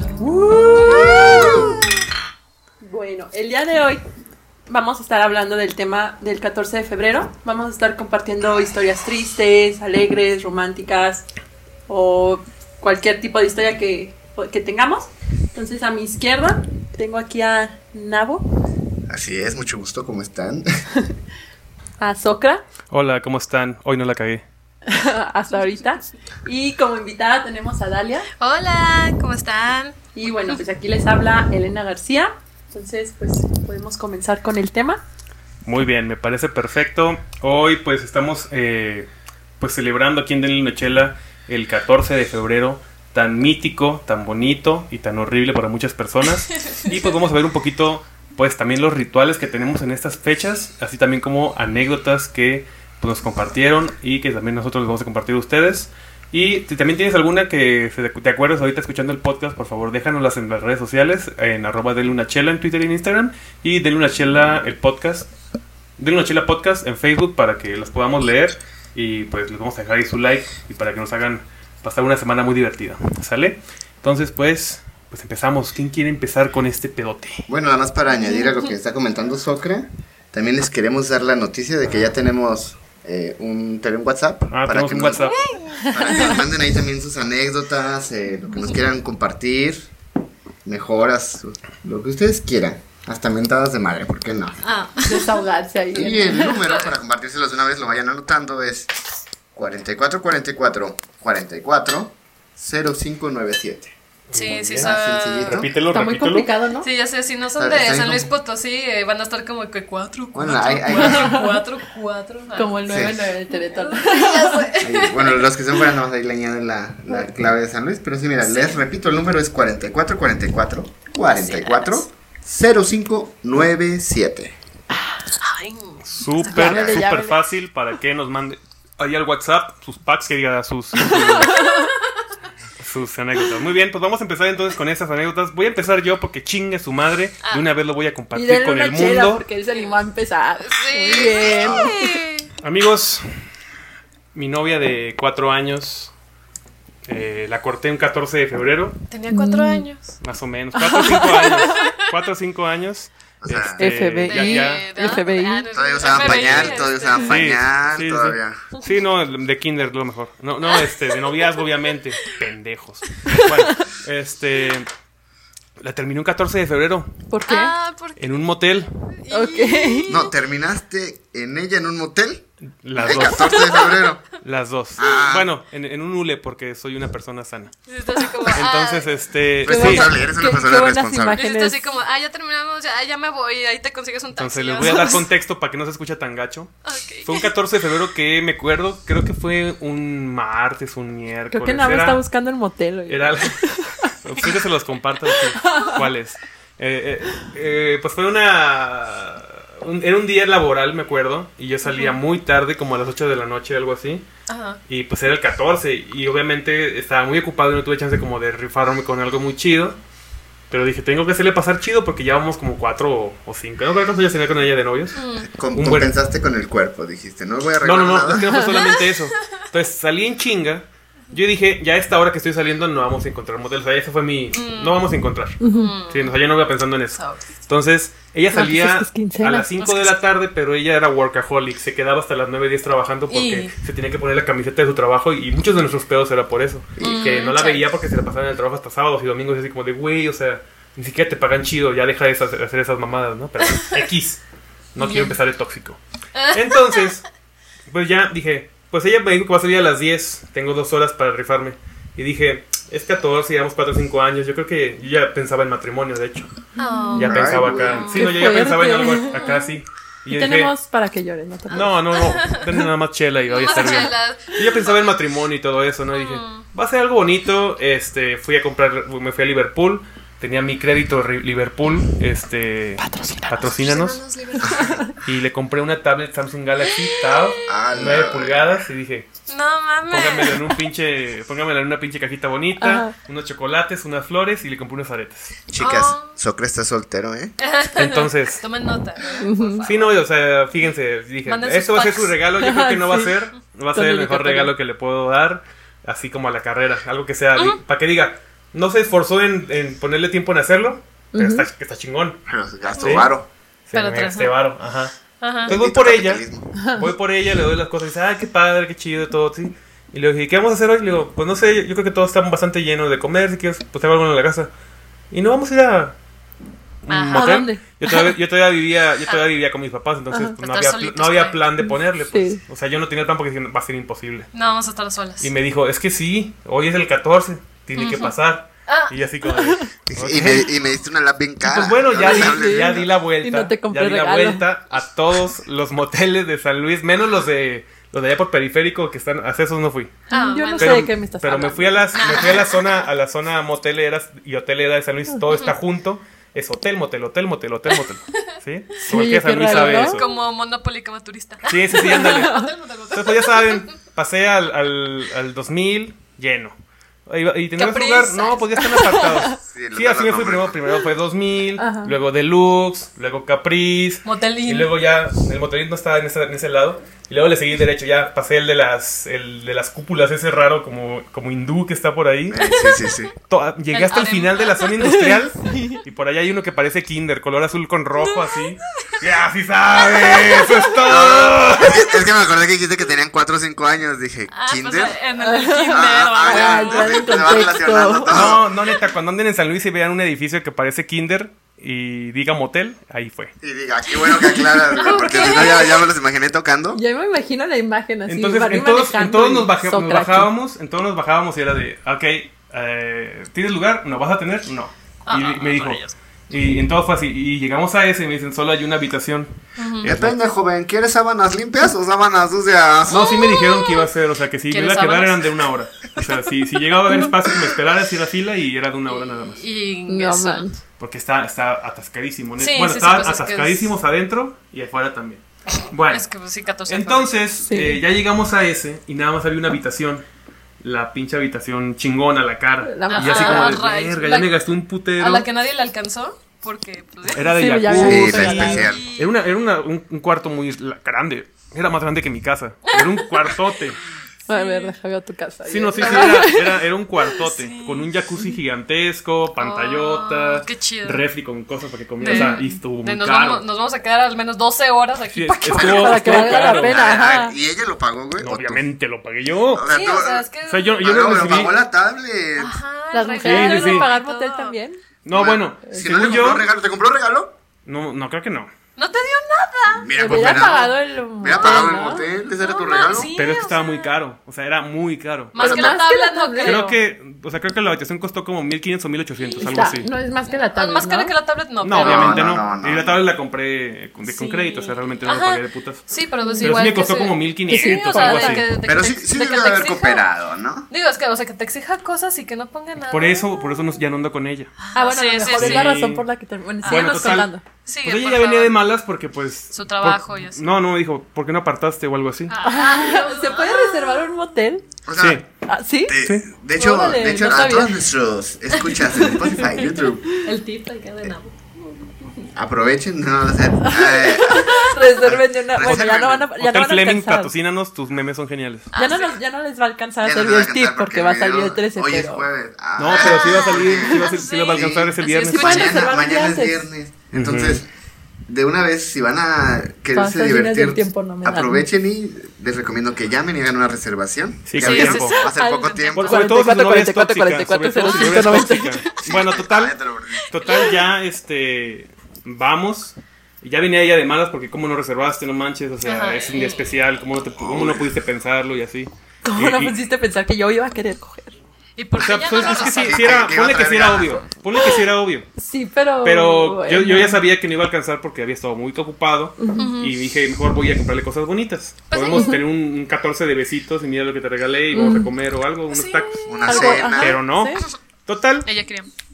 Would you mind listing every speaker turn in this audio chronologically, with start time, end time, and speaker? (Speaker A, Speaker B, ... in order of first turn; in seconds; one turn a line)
Speaker A: 0.2-1.6
Speaker B: 0.6-1.7
Speaker C: 0.8-1.7
Speaker D: 1.3-1.7
Speaker B: 2.8-4.0
Speaker B: 4.7-11.3
Speaker B: 11.9-18.4
Speaker D: 19.1-20.7
Speaker B: 22.0-22.6
Speaker A: 22.9-24.4
Speaker B: 24.9-28.3
Speaker C: 28.4-30.0
Speaker B: 30.1-35.0
Speaker A: 35.6-65.3
Speaker C: 46.5-47.0
Speaker A: 66.0-77.5
Speaker D: 77.5-85.3
Speaker C: 78.4-78.7
Speaker A: 81.8-82.1
Speaker A: 84.5-85.4
Speaker C: 85.2-86.4
Speaker B: 85.7-86.3
Speaker D: 85.9-89.9
Speaker D: 90.7-94.6
Speaker C: 94.6-95.3
Speaker B: 95.0-96.6
Speaker D: 95.9-98.9
Speaker C: 96.5-96.9
Speaker D: 99.5-103.9
Speaker A: 104.3-104.9
Speaker C: 104.3-105.6
Speaker D: 104.5-105.7
Speaker A: 105.5-106.5
Speaker B: 105.9-106.9
Speaker C: 106.8-113.0
Speaker D: 107.6-108.3
Speaker D: 110.3-111.4
Speaker B: 110.9-111.5
Speaker B: 112.5-114.7
Speaker D: 112.9-113.1
Speaker C: 113.7-115.4
Speaker D: 114.8-124.6
Speaker C: 118.4-118.8
Speaker C: 121.3-122.0
Speaker C: 125.4-126.2
Speaker A: 126.0-131.7
Speaker B: 126.4-127.4
Speaker D: 126.6-127.0
Speaker B: 131.0-131.9
Speaker C: 131.6-131.9
Speaker A: 132.8-139.4
Speaker B: 138.3-142.0
Speaker C: 139.7-139.9
Speaker C: 140.6-142.5
Speaker D: 141.1-142.0
Speaker A: 142.6-143.3
Speaker A: 144.3-146.1
Speaker A: 147.1-149.0
Speaker C: 149.1-150.2
Speaker B: 149.3-149.9
Speaker A: 150.2-154.8
Speaker B: 150.8-151.8
Speaker C: 150.9-151.9
Speaker D: 153.4-154.0
Speaker B: 153.8-155.7
Speaker C: 154.3-157.4
Speaker D: 155.7-158.6
Speaker A: 156.1-164.9
Speaker C: 160.6-161.7
Speaker B: 163.3-163.8
Speaker A: 165.8-167.1
Speaker B: 167.3-167.8
Speaker C: 167.5-168.4
Speaker A: 168.2-168.9
Speaker C: 169.1-170.3
Speaker B: 169.3-170.2
Speaker D: 170.1-172.5
Speaker A: 172.8-173.8
Speaker D: 173.0-174.3
Speaker C: 173.2-174.1
Speaker A: 174.4-177.8
Speaker D: 175.0-175.5
Speaker C: 177.9-179.3
Speaker A: 178.5-180.2
Speaker D: 179.6-181.4
Speaker B: 179.7-181.8
Speaker C: 181.4-185.3
Speaker A: 184.4-186.7
Speaker B: 184.8-185.2
Speaker C: 186.8-187.5
Speaker A: 187.2-192.2
Speaker B: 191.5-194.1
Speaker A: 193.1-204.3
Speaker B: 195.6-196.0
Speaker C: 201.8-202.2
Speaker C: 204.5-204.8
Speaker A: 204.9-210.0
Speaker A: 210.7-215.2
Speaker C: 215.1-215.5
Speaker D: 215.4-218.5
Speaker A: 215.7-216.1
Speaker A: 217.8-225.6
Speaker C: 218.7-219.2
Speaker C: 224.5-225.0
Speaker B: 225.6-225.9
Speaker C: 225.6-226.4
Speaker A: 226.1-244.4
Speaker C: 227.1-227.4
Speaker B: 228.5-229.7
Speaker C: 229.8-230.2
Speaker C: 233.3-233.7
Speaker D: 237.0-237.3
Speaker C: 237.0-237.9
Speaker A: 244.9-246.0
Speaker C: 245.0-245.4
Speaker C: 246.4-247.1
Speaker A: 246.5-247.2
Speaker A: 247.9-256.5
Speaker C: 256.8-259.8
Speaker B: 256.9-257.3
Speaker A: 257.2-260.7
Speaker D: 257.2-258.1
Speaker B: 258.1-259.4
Speaker B: 260.3-262.0
Speaker A: 261.7-274.2
Speaker C: 262.1-262.6
Speaker C: 263.5-265.1
Speaker C: 266.1-266.7
Speaker B: 273.0-273.8
Speaker C: 273.6-275.0
Speaker D: 274.6-274.9
Speaker B: 274.6-275.1
Speaker A: 275.2-279.3
Speaker C: 277.2-277.7
Speaker D: 277.7-278.8
Speaker C: 279.5-280.8
Speaker A: 280.1-285.6
Speaker B: 282.8-283.1
Speaker D: 285.7-287.5
Speaker C: 285.8-286.4
Speaker C: 287.6-290.2
Speaker A: 287.9-288.6
Speaker B: 289.4-289.9
Speaker A: 289.8-302.4
Speaker C: 291.5-292.4
Speaker B: 292.6-293.4
Speaker B: 293.9-294.7
Speaker B: 301.3-301.7
Speaker D: 302.5-303.5
Speaker C: 302.9-303.3
Speaker A: 303.0-303.3
Speaker A: 303.9-305.1
Speaker C: 303.9-304.6
Speaker C: 305.4-305.7
Speaker A: 305.7-306.4
Speaker D: 305.7-306.7
Speaker B: 306.8-307.1
Speaker A: 306.9-314.7
Speaker A: 315.3-316.2
Speaker A: 317.0-324.5
Speaker C: 317.1-317.7
Speaker B: 317.3-318.4
Speaker C: 320.6-321.6
Speaker B: 321.8-322.6
Speaker C: 324.5-325.5
Speaker A: 325.4-330.7
Speaker C: 328.0-328.3
Speaker C: 328.9-329.1
Speaker B: 329.5-329.9
Speaker D: 330.1-333.1
Speaker A: 331.6-340.2
Speaker B: 332.2-334.6
Speaker C: 340.3-341.1
Speaker B: 340.3-342.4
Speaker A: 340.8-350.3
Speaker C: 342.1-343.0
Speaker C: 347.9-348.5
Speaker B: 349.1-350.2
Speaker C: 349.6-353.9
Speaker A: 351.7-356.7
Speaker B: 352.1-352.7
Speaker A: 357.3-372.6
Speaker C: 357.8-359.3
Speaker B: 359.0-359.6
Speaker D: 359.6-360.8
Speaker B: 361.8-362.1
Speaker C: 364.2-364.9
Speaker D: 372.5-373.3
Speaker A: 373.5-382.0
Speaker C: 373.9-375.2
Speaker B: 375.7-376.0
Speaker C: 378.2-379.1
Speaker C: 379.9-381.3
Speaker D: 381.0-385.2
Speaker C: 384.5-387.5
Speaker B: 385.4-388.5
Speaker D: 385.9-388.6
Speaker A: 388.3-393.6
Speaker D: 393.6-397.0
Speaker C: 394.1-396.1
Speaker B: 395.1-395.5
Speaker B: 396.9-400.5
Speaker A: 398.3-410.4
Speaker C: 405.3-406.1
Speaker C: 409.8-410.1
Speaker D: 410.0-413.3
Speaker A: 413.1-419.6
Speaker C: 413.1-414.1
Speaker C: 414.7-415.6
Speaker C: 416.2-416.6
Speaker C: 419.1-420.6
Speaker B: 420.1-420.8
Speaker A: 421.0-426.2
Speaker C: 422.6-424.0
Speaker C: 426.1-427.3
Speaker A: 426.9-430.2
Speaker B: 427.6-428.0
Speaker A: 430.8-435.5
Speaker B: 432.8-433.8
Speaker C: 433.1-434.6
Speaker C: 435.2-439.3
Speaker A: 437.3-444.0
Speaker B: 437.4-438.9
Speaker D: 437.9-439.1
Speaker C: 442.9-443.6
Speaker B: 444.5-446.8
Speaker C: 444.5-444.9
Speaker A: 445.7-453.6
Speaker C: 446.0-446.6
Speaker C: 447.3-448.1
Speaker C: 449.6-451.2
Speaker C: 452.2-456.9
Speaker B: 452.3-452.7
Speaker A: 455.3-457.0
Speaker B: 455.8-457.5
Speaker D: 456.8-458.9
Speaker A: 458.4-459.9
Speaker D: 459.7-460.5
Speaker C: 459.9-461.2
Speaker A: 460.7-461.7
Speaker D: 461.0-462.8
Speaker C: 462.6-464.8
Speaker B: 463.1-465.0
Speaker A: 463.4-464.1
Speaker A: 465.2-466.7
Speaker D: 465.3-467.5
Speaker A: 467.9-468.7
Speaker C: 469.0-470.7
Speaker D: 469.9-473.3
Speaker B: 470.2-472.3
Speaker C: 471.6-472.0
Speaker C: 472.6-474.1
Speaker A: 473.4-476.0
Speaker C: 475.6-477.0
Speaker B: 475.6-476.8
Speaker A: 476.6-480.1
Speaker C: 479.4-479.9
Speaker B: 479.6-481.3
Speaker C: 480.5-482.6
Speaker A: 481.8-486.1
Speaker D: 482.0-483.2
Speaker C: 484.2-490.2
Speaker B: 486.4-486.8
Speaker A: 486.6-488.7
Speaker B: 487.7-488.7
Speaker D: 488.8-490.9
Speaker C: 490.9-493.9
Speaker A: 493.1-494.8
Speaker C: 494.8-496.0
Speaker B: 494.9-497.6
Speaker A: 495.5-496.2
Speaker A: 496.8-497.5
Speaker C: 496.8-498.8
Speaker A: 498.0-502.5
Speaker C: 499.7-500.6
Speaker C: 502.5-504.3
Speaker B: 502.6-504.9
Speaker D: 505.1-505.4
Speaker A: 505.2-505.4
Speaker B: 505.7-506.2
Speaker D: 506.1-510.3
Speaker B: 506.8-508.0
Speaker C: 508.9-511.8
Speaker D: 512.5-516.5
Speaker B: 513.8-517.5
Speaker A: 515.8-518.9
Speaker C: 518.9-519.4
Speaker B: 518.9-522.5
Speaker D: 520.2-527.9
Speaker A: 523.0-525.8
Speaker C: 523.1-526.1
Speaker B: 524.0-524.3
Speaker B: 525.5-526.8
Speaker A: 527.3-527.8
Speaker D: 528.5-536.4
Speaker B: 530.1-531.9
Speaker A: 534.7-535.4
Speaker C: 534.8-536.4
Speaker B: 535.3-539.3
Speaker A: 536.2-550.0
Speaker C: 538.1-538.4
Speaker D: 539.2-540.5
Speaker C: 540.6-541.0
Speaker C: 546.0-547.0
Speaker D: 547.6-548.1
Speaker B: 549.4-551.6
Speaker C: 552.0-553.4
Speaker A: 552.1-555.5
Speaker D: 552.5-554.4
Speaker B: 555.6-557.4
Speaker A: 556.2-568.7
Speaker B: 559.6-559.9
Speaker C: 559.8-560.2
Speaker C: 562.1-562.6
Speaker B: 562.3-562.6
Speaker B: 564.9-565.3
Speaker C: 565.9-566.6
Speaker D: 566.5-567.4
Speaker B: 566.6-567.9
Speaker C: 568.6-569.1